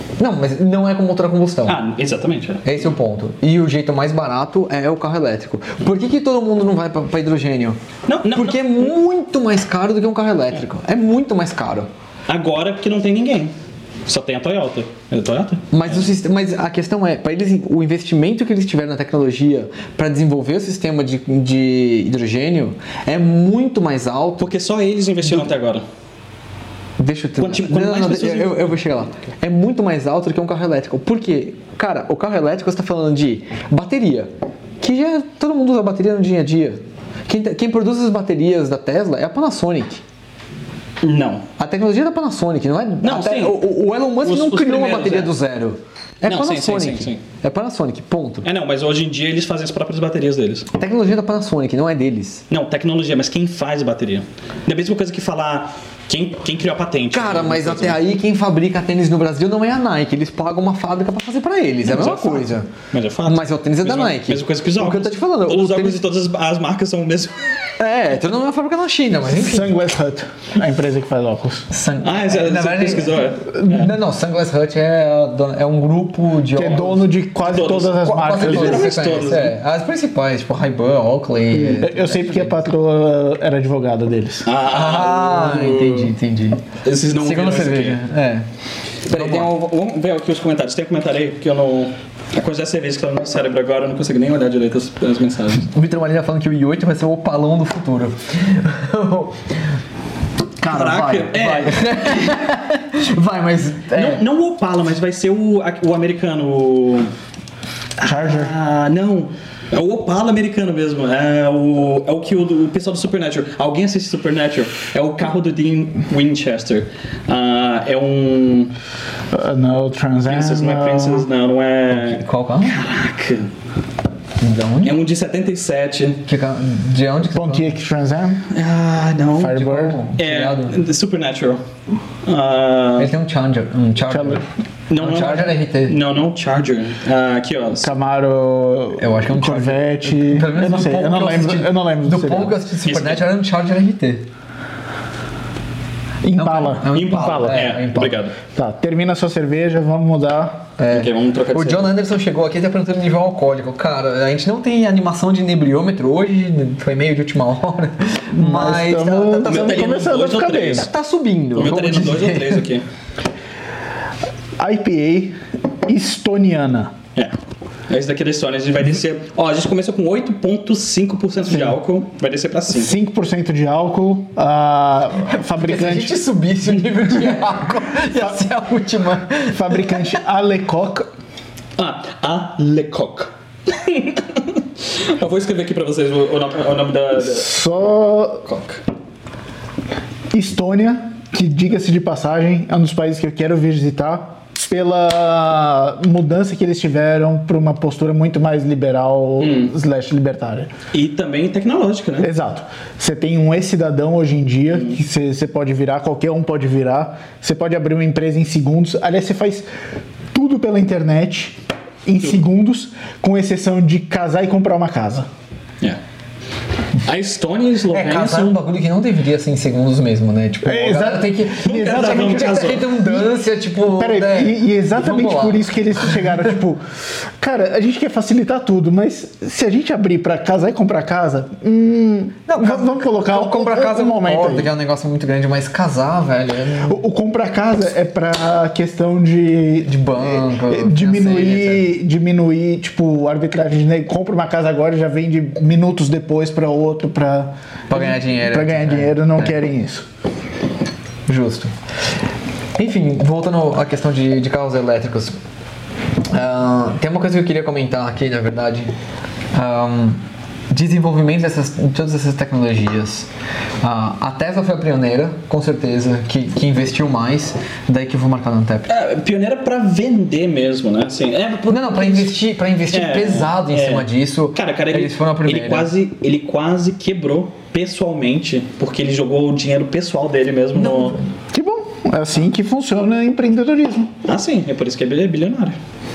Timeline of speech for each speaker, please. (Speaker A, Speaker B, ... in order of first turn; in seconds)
Speaker A: 0.2-1.8, 2.6-7.8, 8.3-11.9, 15.7-24.5, 27.0-40.0, 41.6-48.5, 50.7-52.4, 57.1-62.7, 63.2-66.0, 67.8-69.7, 71.7-77.1, 78.0-82.6, 84.7-86.6, 87.2-88.5, 89.1-89.5, 95.6-99.6, 100.6-104.2, 122.0-122.8, 124.4-125.0, 126.2-127.7, 129.5-130.8, 133.0-134.4, 135.0-135.9, 139.0-144.2, 146.4-148.2, 150.8-159.9, 160.7-162.6, 175.3-180.1, 217.9-226.3, 232.5-237.0, 239.8-241.9, 247.9-249.6, 251.3-251.7, 252.8-255.3, 256.3-258.9, 259.5-263.3, 263.8-268.9, 271.7-275.9, 280.7-281.2
Speaker B: 1.6-2.7, 8.1-8.9, 12.3-13.5, 14.1-16.0, 24.4-25.8, 27.4-28.8, 41.0-41.4, 43.0-43.6, 44.2-45.3, 46.2-47.2, 48.4-50.7, 52.5-58.0, 61.8-67.5, 72.0-73.9, 77.4-79.5, 84.4-86.1, 86.8-88.0, 89.0-95.7, 100.6-102.4, 103.9-107.1, 108.0-118.7, 120.2-123.5, 124.8-126.2, 128.5-131.6, 132.2-133.1, 134.9-137.9, 142.8-143.2, 146.9-148.3, 150.9-151.9, 159.4-160.9, 161.5-162.8, 167.9-172.9, 181.8-187.5, 188.4-188.8, 199.4-199.7, 200.9-202.3, 204.7-205.0, 217.0-218.6, 221.6-222.8, 268.9-272.3, 272.9-281.2, 284.2-285.8
Speaker C: 69.3-71.7, 76.5-78.9, 81.5-84.5, 108.0-108.5, 119.3-121.3, 127.3-128.4, 129.4-130.0, 134.1-134.4, 137.8-142.6, 146.2-147.6, 148.5-150.7, 158.3-160.9, 164.6-166.9, 172.7-176.2, 179.5-181.1, 187.2-188.4, 190.3-200.7, 202.2-209.7, 210.3-215.3, 220.6-226.8, 227.4-234.7, 236.8-250.1, 281.5-284.1